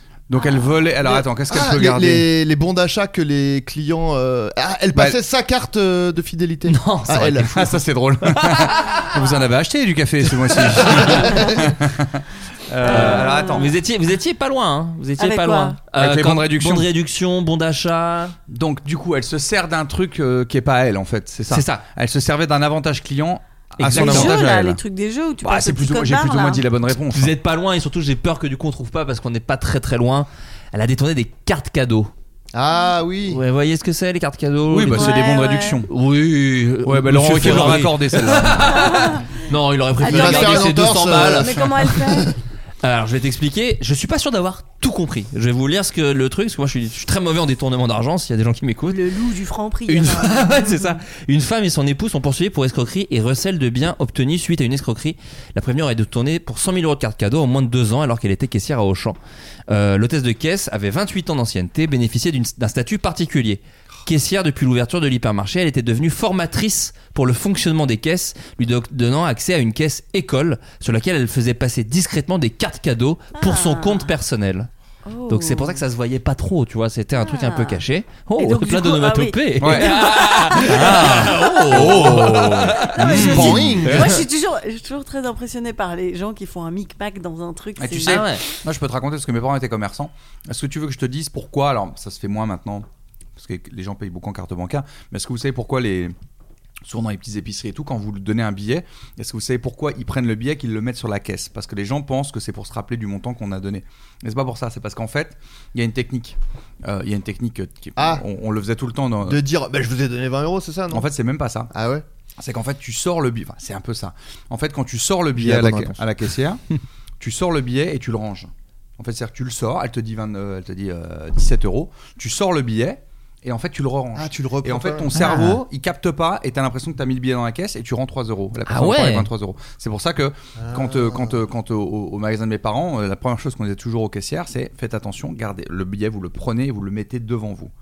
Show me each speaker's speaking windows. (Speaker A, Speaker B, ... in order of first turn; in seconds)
Speaker A: 0.3-2.3, 7.5-13.8, 16.0-16.9, 18.5-24.8, 25.4-27.4, 34.7-35.9, 36.9-39.0, 79.6-83.9, 87.8-92.9, 93.4-96.2, 96.8-109.4, 110.9-111.7, 112.4-116.6, 117.2-137.7
Speaker B: 1.1-7.8, 10.9-11.2, 32.5-33.4, 40.0-42.3, 83.0-84.2, 108.0-108.2, 109.2-111.1, 111.7-112.0, 115.3-116.0, 124.1-125.5, 130.6-131.4
Speaker C: 6.7-7.7, 8.3-9.1, 10.8-11.3, 12.8-18.4, 21.5-21.8, 23.8-24.4, 27.1-32.1, 33.3-35.2, 35.9-41.7, 42.8-49.0, 49.9-59.2, 59.7-74.7, 75.3-84.2, 88.1-88.4, 125.2-125.6, 128.7-129.3
Speaker D: 12.8-13.7, 15.2-15.8, 23.9-26.6, 34.9-35.8, 38.7-39.3, 40.0-40.8, 41.4-42.3, 48.9-51.0, 73.4-74.1, 75.0-75.8, 77.2-77.8, 78.4-88.4